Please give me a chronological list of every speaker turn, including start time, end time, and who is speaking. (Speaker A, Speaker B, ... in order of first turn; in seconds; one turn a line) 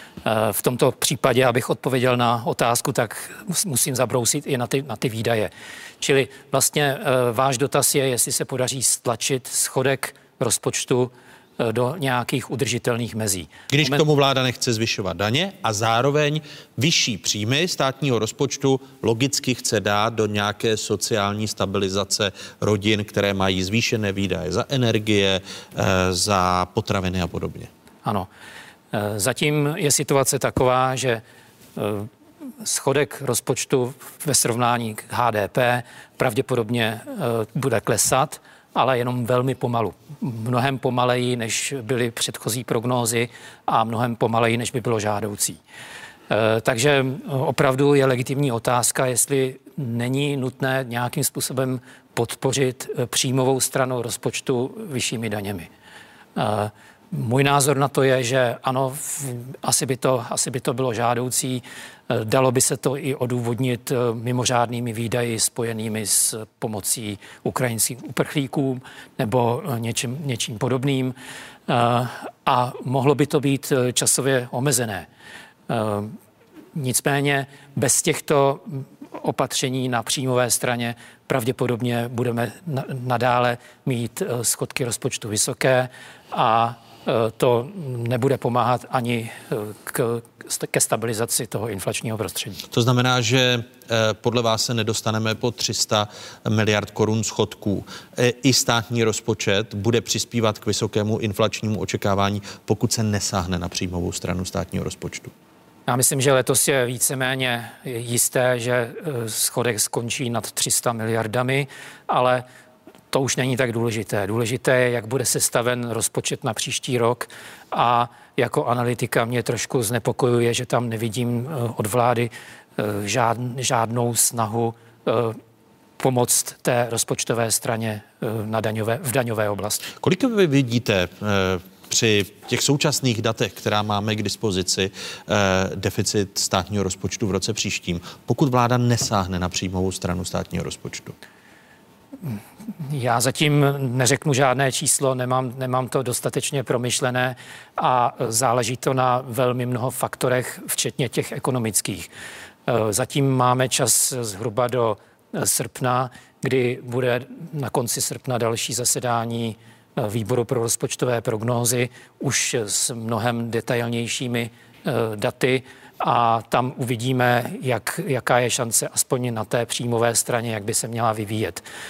Speaker A: 0.2-14.0
Speaker B: 13.7-27.7
Speaker A: 28.9-31.2
Speaker A: 31.8-32.1
Speaker A: 32.6-45.6
Speaker A: 46.3-55.7
Speaker A: 56.4-71.2
Speaker A: 71.7-75.1
Speaker A: 75.7-76.1
Speaker A: 76.8-92.6
Speaker B: 92.7-105.3
Speaker A: 105.9-112.4
Speaker A: 113.1-125.4
Speaker A: 126.0-129.8
Speaker B: 129.9-141.1
Speaker A: 142.2-152.1
Speaker A: 152.7-171.6